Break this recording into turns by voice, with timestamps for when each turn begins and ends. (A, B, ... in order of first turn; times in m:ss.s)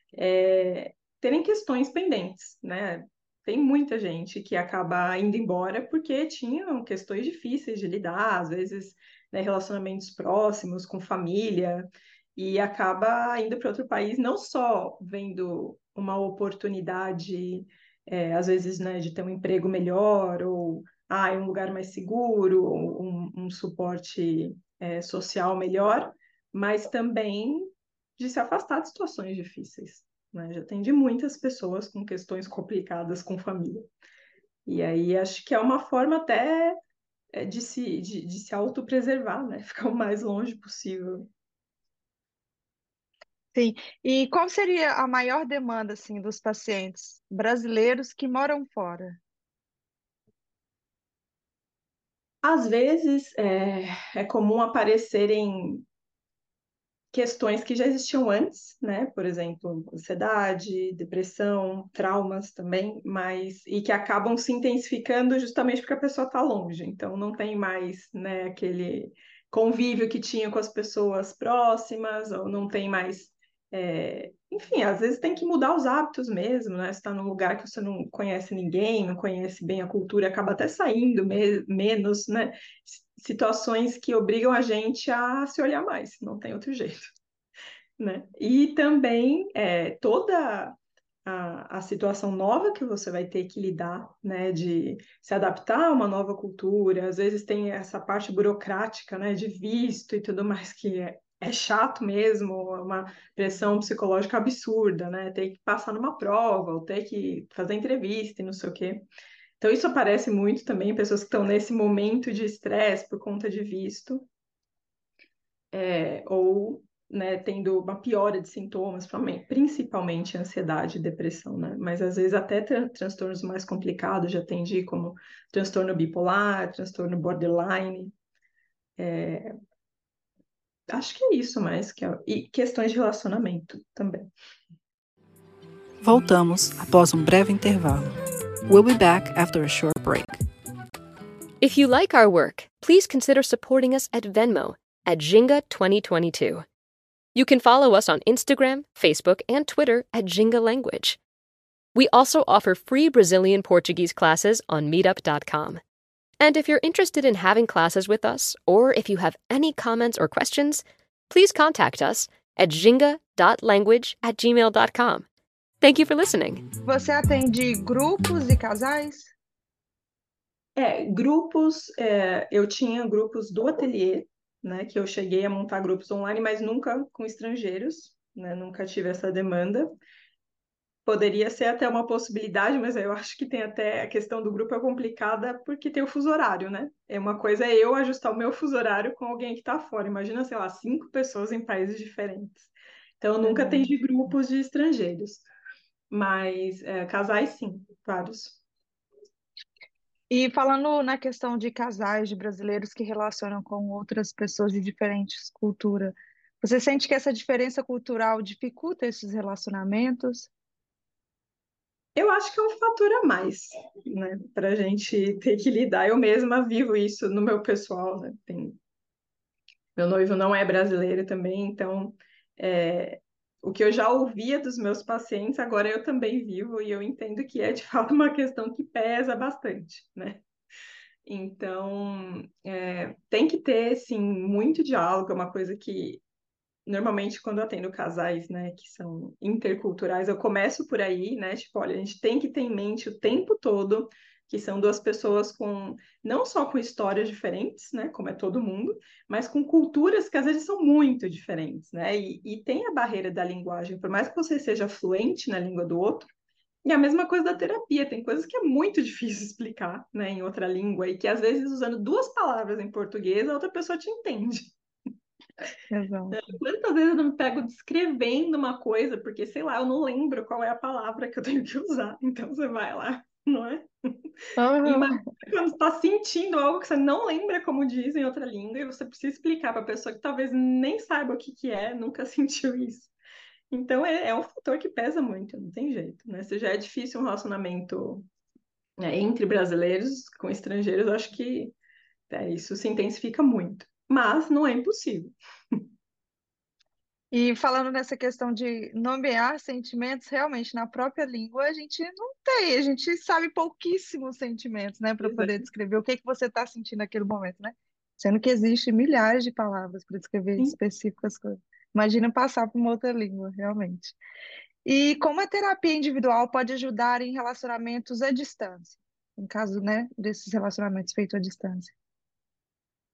0:00.1-0:33.9 A
0:34.6-0:36.8 A
0:37.3-0:41.3 A
0:43.5-0:49.2 B
0:52.4-0:55.8 A
0:57.1-1:27.1 A
1:28.0-1:49.0 A
1:49.6-1:54.3 A
1:55.7-2:08.1 A
2:09.0-2:09.5 A
2:10.9-2:14.3 A
2:16.0-2:18.1 C
2:18.7-2:20.4 C
2:21.6-2:26.6 D
2:27.3-2:31.2 D
2:31.9-2:35.8 D
2:36.4-2:45.2 D
2:45.8-2:46.7 D
2:46.8-2:49.3 B
2:50.8-2:59.9 A
3:01.0-3:15.5 A
3:13.4-3:13.9 B
3:16.1-3:18.6 A
3:20.3-3:30.5 B
3:32.2-3:38.8 A
3:40.0-3:50.4 A
3:51.2-3:56.2 A
3:56.8-4:16.3 A
4:16.8-4:24.7 A
4:25.9-4:26.4 B
4:26.3-4:34.2 A
4:34.6-4:35.1 B
4:34.8-4:43.1 A
4:43.7-4:48.2 A
4:49.0-4:51.7 A
4:52.3-4:55.8 A
4:57.3-5:14.2 B
5:05.2-5:05.6 A
5:14.8-5:21.9 B